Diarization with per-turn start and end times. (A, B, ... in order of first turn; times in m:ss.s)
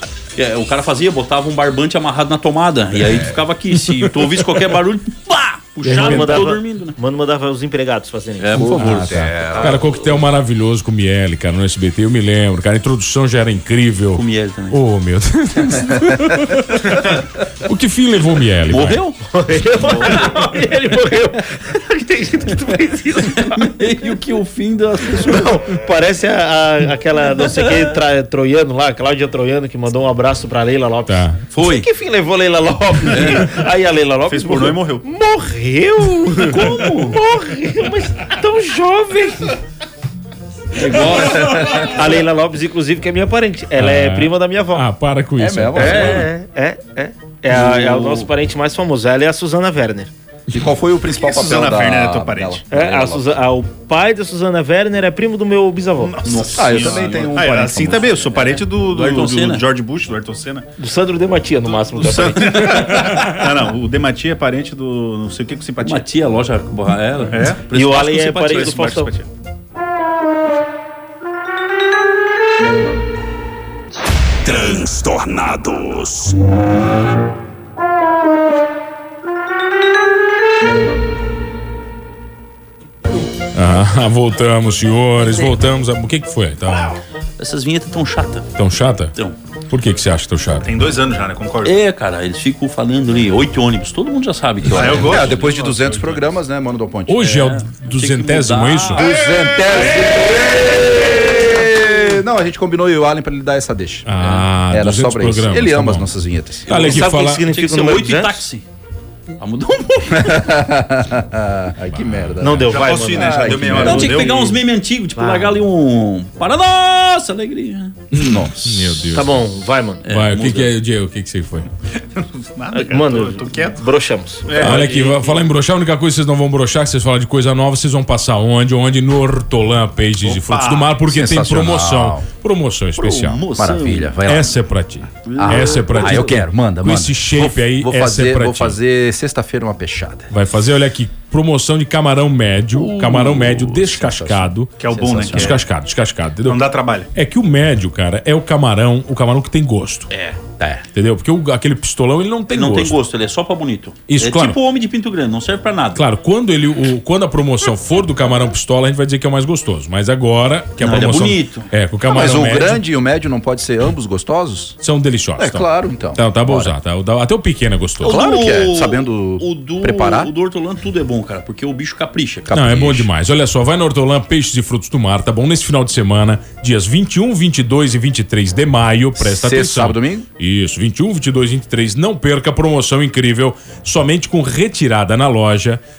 0:00.4-0:07.0 A
0:05.8-0:06.5 B
0:05.8-0:08.7 C
0:08.4-0:09.7 A
0:08.5-0:09.8 D
0:08.7-0:19.0 B
0:14.1-0:14.8 A
0:18.7-0:19.2 A
0:19.3-0:23.8 C
0:19.8-0:20.4 A
0:23.4-0:25.6 A
0:25.1-0:39.6 C
0:31.1-0:31.4 B
0:31.5-0:31.9 A
0:33.1-0:33.5 A
0:34.3-0:35.0 E
0:36.5-0:37.2 A
0:40.7-0:41.8 A
0:41.1-0:41.9 D
0:41.8-0:44.9 C
0:43.8-0:46.2 B
0:45.4-0:46.3 D
0:45.7-0:50.1 C
0:47.5-0:48.2 A
0:50.5-0:53.4 D
0:51.2-0:52.6 E
0:52.7-0:56.2 C
0:56.0-1:00.7 E
0:56.2-0:57.3 A
0:56.2-0:58.3 D
0:58.3-0:59.6 A
1:00.8-1:02.8 C
1:01.9-1:06.0 E
1:05.8-1:08.8 A
1:07.3-1:09.3 E
1:07.7-1:09.1 C
1:14.4-1:16.3 A
1:23.5-1:27.0 B
1:27.4-1:28.5 A
1:28.6-1:29.1 B
1:29.7-1:30.7 B
1:30.6-1:31.7 E
1:31.6-1:35.4 A
1:34.7-1:36.3 E
1:34.8-1:37.2 D
1:37.1-1:39.0 B
1:37.2-1:39.0 A
1:39.0-1:46.7 D
1:39.0-1:40.2 E
1:44.1-1:46.1 B
1:46.6-1:47.4 B
1:46.7-1:48.6 A
1:46.7-1:48.4 C
1:49.4-1:50.5 A
1:50.1-1:54.3 D
1:51.9-1:52.6 B
1:52.4-1:54.0 C
1:52.7-1:54.6 E
1:53.8-1:58.0 A
1:55.2-1:55.6 C
1:58.1-1:59.0 D
1:58.1-1:59.4 B
1:59.1-2:00.0 C
2:00.0-2:00.7 A
2:00.1-2:01.7 B
2:02.2-2:03.8 E
2:02.7-2:04.9 C
2:04.4-2:05.0 E
2:04.6-2:13.4 B
2:04.6-2:05.1 A
2:10.2-2:11.0 E
2:11.1-2:12.2 D
2:13.0-2:14.2 A
2:13.6-2:14.5 D
2:14.2-2:18.8 B
2:15.2-2:16.4 A
2:15.4-2:20.3 D
2:20.3-2:24.7 B
2:22.8-2:23.8 A
2:23.7-2:25.6 D
2:24.8-2:25.6 E
2:25.3-2:26.6 B
2:26.4-2:27.1 E
2:27.1-2:30.1 B
2:30.1-2:30.5 A
2:30.8-2:33.0 B
2:32.5-2:36.0 A
2:34.1-2:34.6 B
2:36.0-2:42.8 B
2:40.8-2:41.7 A
2:42.1-2:44.8 D
2:44.8-2:48.2 B
2:45.4-2:46.7 D
2:48.0-2:50.3 D
2:48.0-2:52.5 A
2:52.5-2:53.1 D
2:52.5-3:05.8 B
2:59.2-3:00.3 D